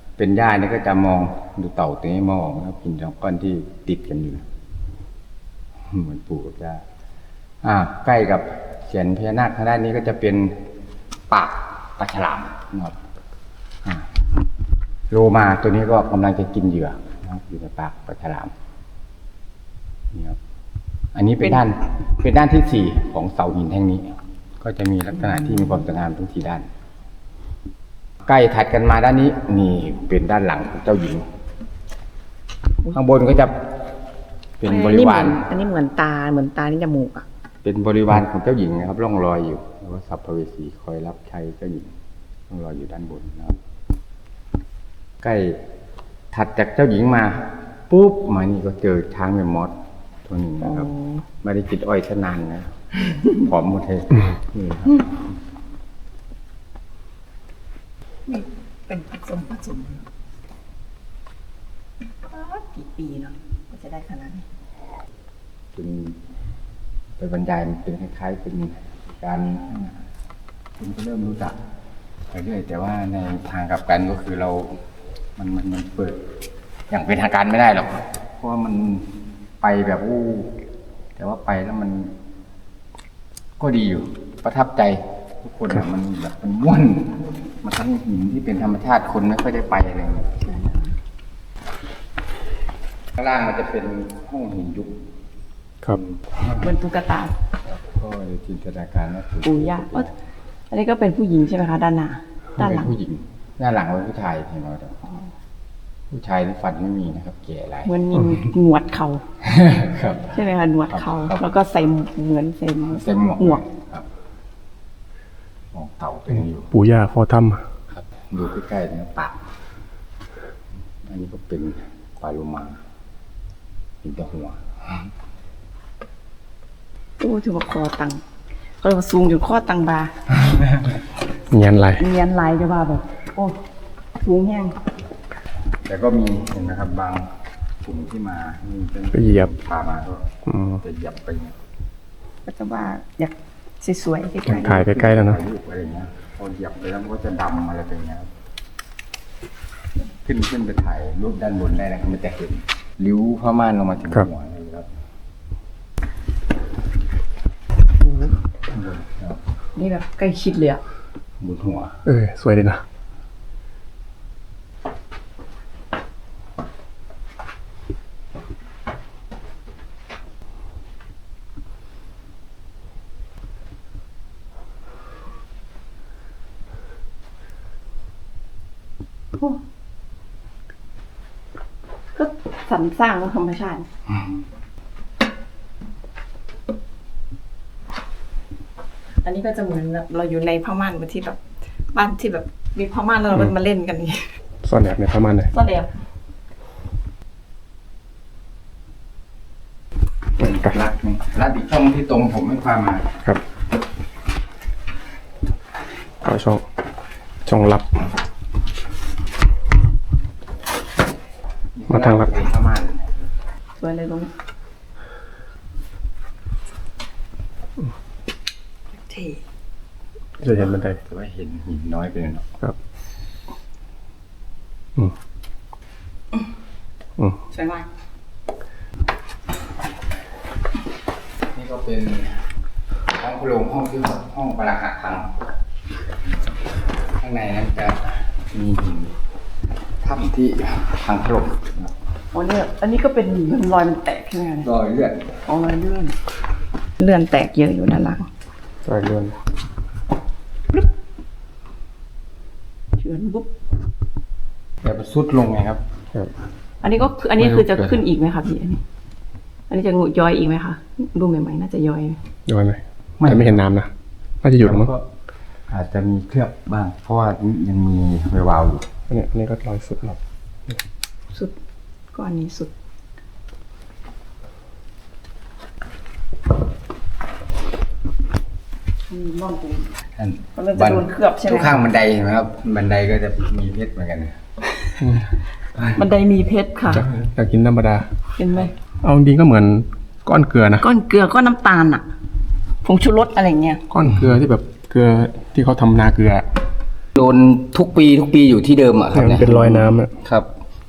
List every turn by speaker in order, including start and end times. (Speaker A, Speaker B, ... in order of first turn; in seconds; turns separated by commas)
Speaker A: 0.2-4.4, Speaker A: 5.9-6.8, Speaker A: 7.6-10.7, Speaker A: 11.3-12.9, Speaker A: 13.8-14.1, Speaker A: 15.1-18.5, Speaker A: 20.1-20.4, Speaker A: 21.1-26.7, Speaker A: 28.3-31.2, Speaker A: 32.9-33.7, Speaker A: 34.6-35.4, Speaker B: 34.6-37.2, Speaker A: 37.6-41.9, Speaker A: 42.5-43.6, Speaker A: 45.2-45.6, Speaker A: 46.3-50.9, Speaker B: 50.6-51.2, Speaker A: 51.4-52.7, Speaker A: 53.2-55.3, Speaker B: 58.3-60.0, Speaker B: 62.3-64.4, Speaker A: 65.7-66.2, Speaker A: 67.2-70.0, Speaker A: 70.8-71.5, Speaker A: 72.3-74.8, Speaker A: 75.4-76.2, Speaker A: 76.9-79.1, Speaker A: 79.6-80.5, Speaker A: 81.2-82.1, Speaker A: 83.6-90.3, Speaker B: 90.4-90.9, Speaker A: 93.2-95.0, Speaker A: 95.9-96.7, Speaker B: 96.6-97.3, Speaker A: 97.7-100.2, Speaker B: 99.4-100.1, Speaker B: 100.7-102.9, Speaker A: 102.6-105.0, Speaker A: 106.1-107.9, Speaker B: 107.8-109.2, Speaker A: 109.4-110.3, Speaker B: 110.3-113.6, Speaker A: 110.9-111.5, Speaker A: 112.9-114.0, Speaker A: 115.7-116.7, Speaker C: 116.7-117.7, Speaker A: 117.9-119.4, Speaker A: 121.0-122.8, Speaker A: 124.0-125.1, Speaker B: 127.2-128.2, Speaker B: 128.8-130.1, Speaker A: 130.3-130.9, Speaker C: 131.5-132.1, Speaker B: 132.0-133.6, Speaker B: 134.2-134.8, Speaker A: 135.8-140.3, Speaker C: 139.1-139.5, Speaker C: 140.4-140.8, Speaker A: 140.8-141.6, Speaker B: 142.4-144.8, Speaker A: 144.5-148.3, Speaker C: 144.5-145.4, Speaker A: 150.2-154.9, Speaker A: 158.7-159.4, Speaker B: 159.8-160.8, Speaker A: 161.4-162.0, Speaker C: 162.0-162.8, Speaker B: 182.1-183.9, Speaker B: 189.2-191.4, Speaker B: 191.9-194.3, Speaker C: 194.6-195.5, Speaker B: 195.5-195.9, Speaker A: 200.4-203.1, Speaker C: 200.4-200.7, Speaker C: 206.2-206.6, Speaker C: 207.4-208.0, Speaker A: 211.7-213.1, Speaker C: 211.9-212.3, Speaker B: 213.8-214.3, Speaker B: 219.0-219.4, Speaker C: 220.4-221.0, Speaker A: 221.1-222.5, Speaker B: 227.5-227.9, Speaker A: 231.5-232.4, Speaker A: 233.1-235.3, Speaker A: 237.2-239.1, Speaker A: 240.0-241.9, Speaker B: 242.3-244.7, Speaker A: 244.6-245.3, Speaker B: 245.4-246.2, Speaker B: 247.0-248.3, Speaker C: 248.8-249.4, Speaker B: 253.0-253.5, Speaker A: 254.8-255.8, Speaker B: 256.8-258.8, Speaker B: 259.7-262.2, Speaker C: 262.4-263.9, Speaker A: 263.2-263.6, Speaker C: 264.4-264.9, Speaker A: 264.6-265.0, Speaker A: 265.7-268.9, Speaker C: 269.1-270.8, Speaker B: 272.1-272.7, Speaker B: 279.1-279.9, Speaker A: 280.2-284.4, Speaker B: 280.6-281.8, Speaker C: 285.0-285.3, Speaker B: 285.8-287.1, Speaker C: 286.9-288.1, Speaker B: 288.4-288.7, Speaker C: 289.0-290.8, Speaker B: 290.8-292.1, Speaker B: 292.8-293.9, Speaker C: 293.9-296.5, Speaker A: 297.1-300.5, Speaker C: 299.1-300.1